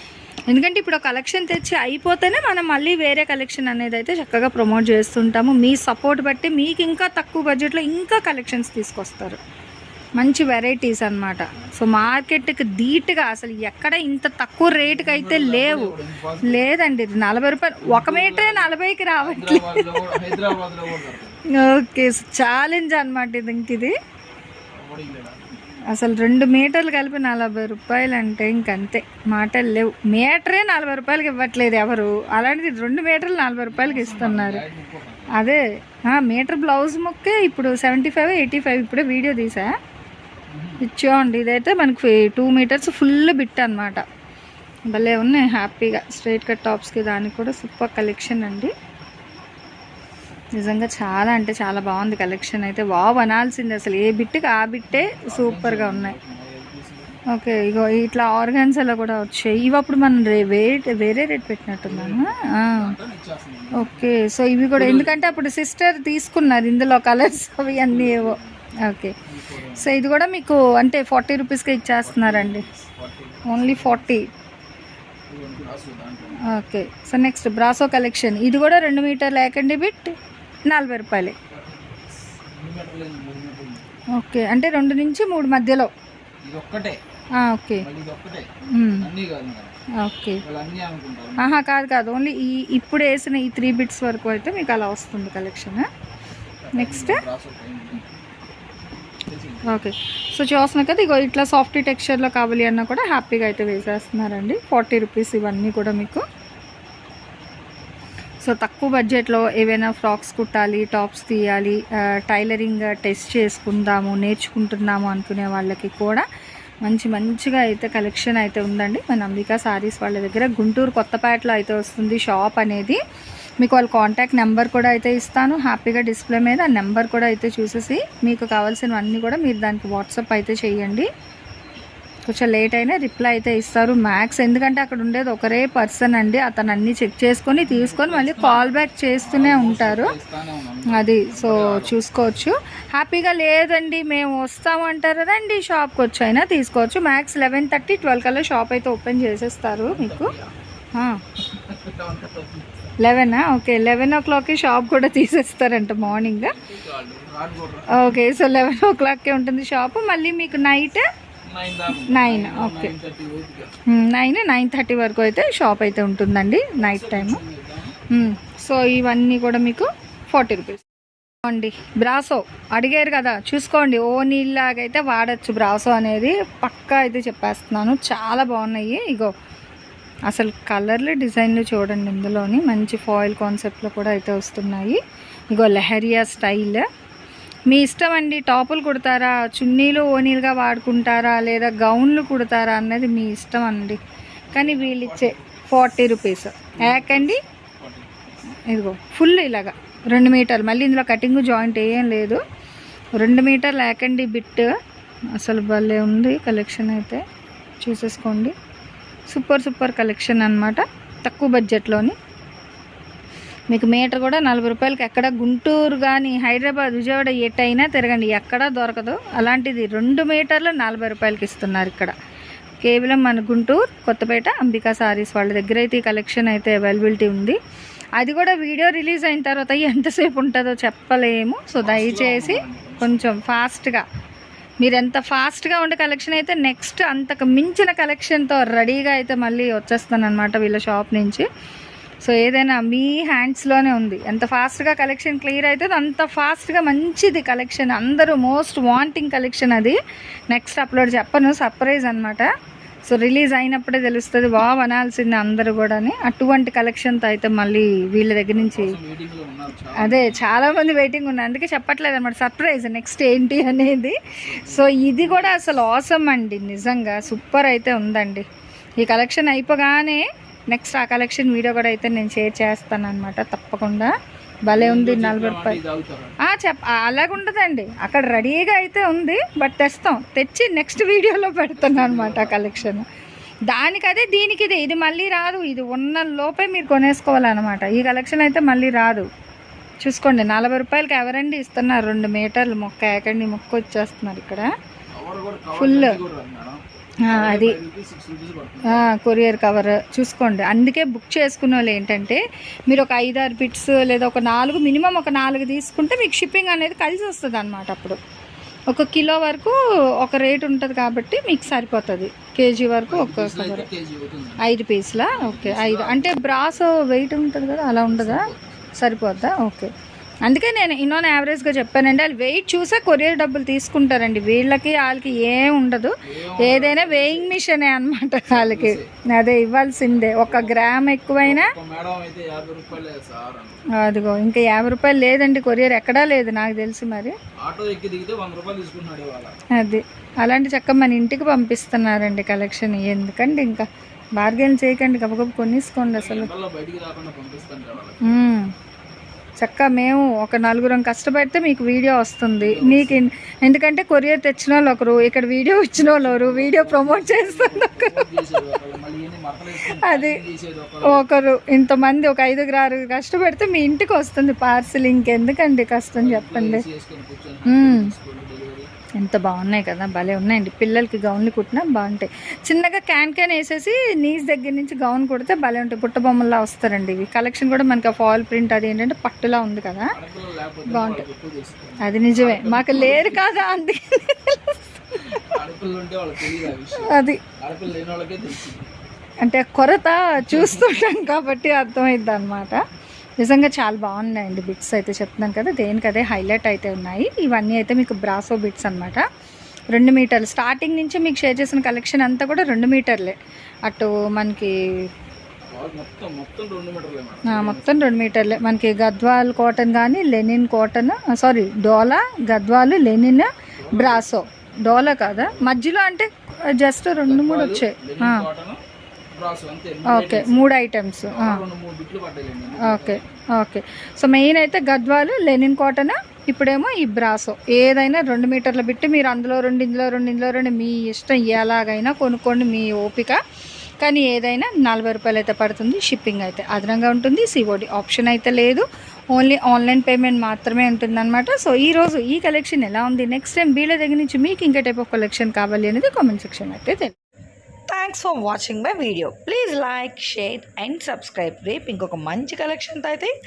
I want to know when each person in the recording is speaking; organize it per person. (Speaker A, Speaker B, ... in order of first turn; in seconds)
Speaker A: 0.5-9.4, 10.2-15.9, 16.4-20.3, 21.5-23.9, 25.9-34.6, 35.3-39.7, 40.8-44.0, 44.9-48.7, 50.6-56.1, 57.3-62.9, 63.7-69.1, 69.8-72.7, 73.5-74.3, 76.4-80.1, 80.7-81.3, 84.2-85.9, 87.3-87.8, 88.7-89.1, 90.0-90.4, 91.4-95.8, 96.7-97.2, 99.7-106.2, 108.4-116.2, 116.8-123.0, 123.6-131.1, 132.3-140.1, 140.9-150.3, 150.9-151.2, 153.0-156.6, 157.9-161.0, 161.9-162.9, 163.9-167.4, 168.1-170.8, 171.4-179.3, 180.3-185.0, 185.5-186.8, 187.7-194.0, 194.5-197.4, 198.5-202.4, 203.2-204.7, 205.4-207.2, 207.8-208.5, 209.3-212.2, 213.7-222.1, 222.8-227.6, 228.2-234.0, 234.8-241.4, 242.2-250.0, 250.5-252.5, 253.1-259.0, 259.9-268.4, 269.0-274.1, 274.6-275.8, 276.4-283.0, 283.7-289.3, 290.0-294.7, 295.7-296.2, 297.3-297.8, 298.9-308.2, 308.9-313.9, 314.6-319.9, 320.4-331.7, 333.9-337.3, 339.7-343.9, 344.4-346.5, 348.2-348.7, 349.6-358.4, 359.9-360.4, 361.0-366.8, 367.7-368.1, 369.2-380.1, 380.9-381.2, 382.0-385.4, 386.9-387.4, 389.4-392.8, 393.4-399.2, 399.9-405.1, 407.4-418.4, 420.1-421.6, 422.8-433.4, 434.0-447.1
Speaker B: 14.8-16.7, 17.8-21.4, 24.7-25.6, 33.7-35.4, 40.5-40.8, 54.9-57.2, 61.8-64.2, 64.7-65.4, 67.7-68.7, 69.2-70.0, 72.0-74.1, 75.3-76.4, 81.5-83.8, 86.4-87.0, 87.8-89.8, 90.4-91.5, 96.6-98.2, 99.3-99.8, 137.6-142.0, 149.9-150.6, 151.3-152.9, 156.0-158.2, 161.5-163.7, 166.8-167.9, 194.5-195.8, 196.7-198.4, 231.8-233.3, 258.5-260.5, 264.4-265.8, 274.7-276.4, 281.8-282.9, 295.1-299.1, 313.1-314.6, 315.3-316.9, 318.1-319.1, 326.2-327.6, 328.5-329.2, 330.3-333.8, 337.6-339.6, 346.0-348.4, 352.6-353.3, 355.9-361.4, 366.2-368.9, 380.1-383.5, 385.3-388.9, 390.4-390.9, 405.7-408.4, 413.8-414.3, 414.9-415.7, 417.3-418.8, 419.3-420.7, 421.3-423.4
Speaker C: 447.9-453.3